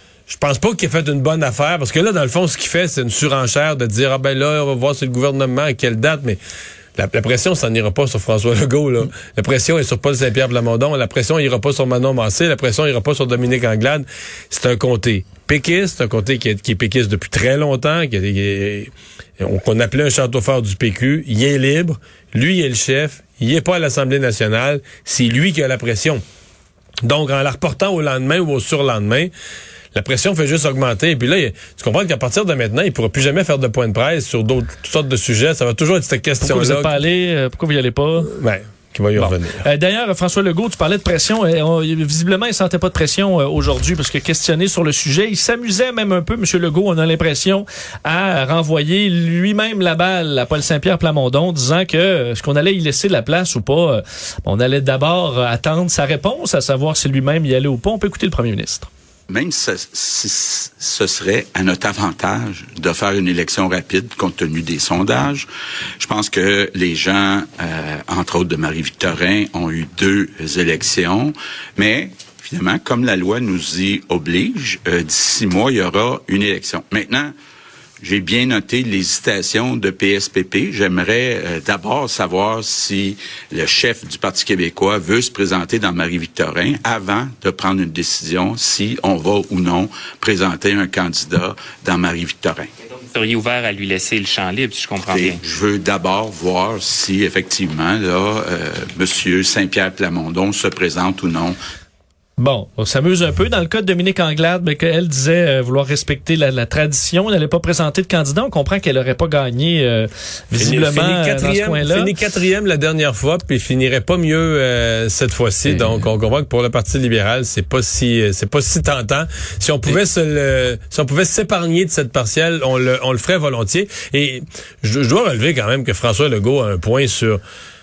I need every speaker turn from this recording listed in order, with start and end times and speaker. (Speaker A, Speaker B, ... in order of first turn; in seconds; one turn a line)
Speaker A: 0.3-6.4
Speaker A: 7.0-26.2
Speaker A: 27.0-29.3
Speaker A: 29.9-37.0
Speaker B: 36.4-38.3
Speaker A: 38.2-39.6
Speaker B: 39.1-58.9
Speaker C: 59.3-65.5
Speaker C: 66.0-77.3
Speaker C: 78.0-92.7
Speaker D: 93.1-95.4
Speaker C: 95.1-101.6
Speaker B: 102.4-112.1
Speaker A: 110.6-127.4
Speaker B: 115.7-116.0